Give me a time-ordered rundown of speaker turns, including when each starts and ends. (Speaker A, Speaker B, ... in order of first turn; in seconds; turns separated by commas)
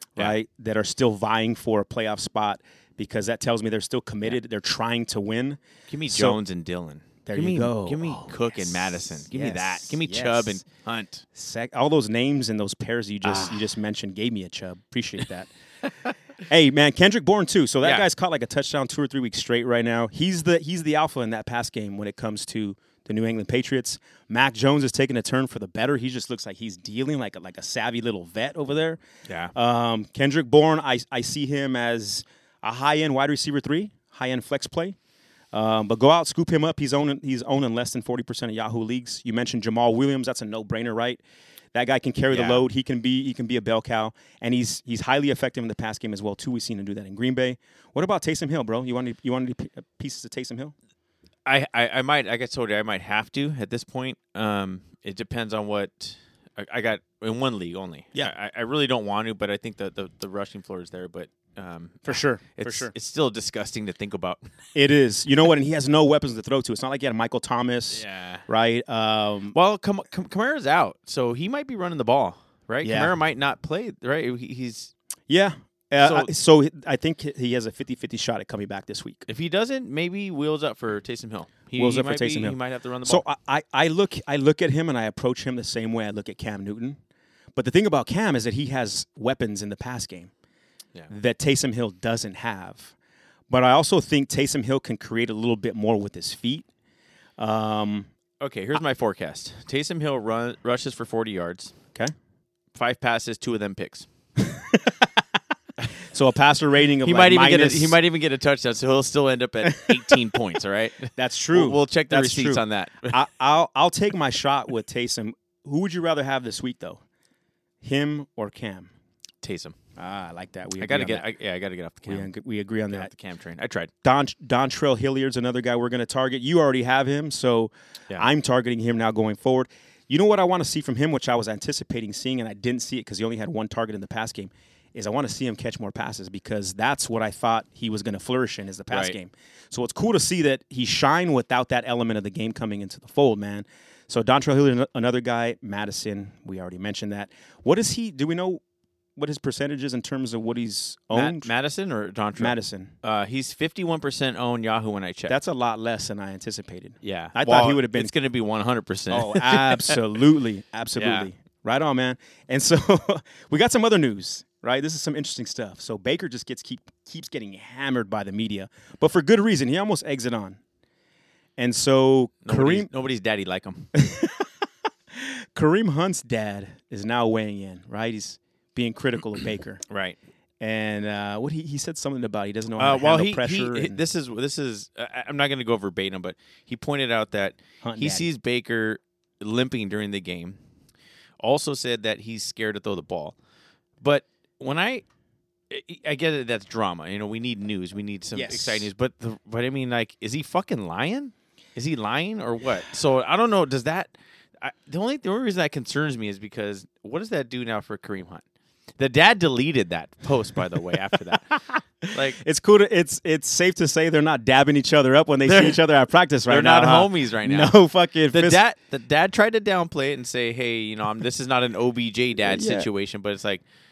Speaker A: 0.2-6.4, Speaker B: 5.9-11.3, Speaker A: 7.3-10.6, Speaker A: 11.3-15.5, Speaker B: 13.2-13.7, Speaker A: 16.5-29.0, Speaker B: 17.8-18.1, Speaker B: 29.3-29.5, Speaker A: 29.5-35.0, Speaker A: 35.5-41.2, Speaker A: 41.7-50.7, Speaker B: 42.3-42.6, Speaker B: 51.5-64.5, Speaker A: 62.1-62.9, Speaker A: 64.8-69.5, Speaker B: 67.9-68.5, Speaker B: 69.5-74.9, Speaker A: 72.8-73.1, Speaker A: 75.3-79.3, Speaker B: 76.0-76.3, Speaker B: 79.3-83.2, Speaker A: 81.8-87.0, Speaker A: 87.5-90.3, Speaker A: 91.1-93.0, Speaker A: 93.5-96.7, Speaker A: 97.4-98.1, Speaker B: 98.4-101.7, Speaker B: 102.7-104.1, Speaker A: 104.4-104.9, Speaker A: 106.1-108.0, Speaker B: 107.0-113.2, Speaker A: 109.7-110.0, Speaker A: 111.2-117.0, Speaker A: 117.8-118.9, Speaker B: 119.4-119.8, Speaker A: 120.0-121.3, Speaker B: 120.8-122.3, Speaker A: 122.0-123.1, Speaker B: 122.9-123.9, Speaker A: 124.0-148.6, Speaker B: 138.9-139.2, Speaker A: 149.2-151.5, Speaker B: 151.1-155.4, Speaker A: 152.4-152.9, Speaker A: 155.3-158.1, Speaker B: 157.0-160.0, Speaker A: 159.1-170.6, Speaker B: 161.0-161.3, Speaker A: 171.6-172.9, Speaker B: 172.4-173.9, Speaker A: 173.9-174.5, Speaker A: 175.1-179.8, Speaker B: 179.9-180.2, Speaker A: 180.6-184.0, Speaker B: 182.8-190.6, Speaker A: 187.8-188.3, Speaker B: 191.4-193.4, Speaker B: 194.0-195.1, Speaker B: 195.7-208.4, Speaker A: 198.3-198.9, Speaker B: 209.0-212.4, Speaker A: 211.5-218.6, Speaker B: 215.4-215.8, Speaker B: 216.5-217.8, Speaker B: 218.3-223.6, Speaker A: 222.5-222.9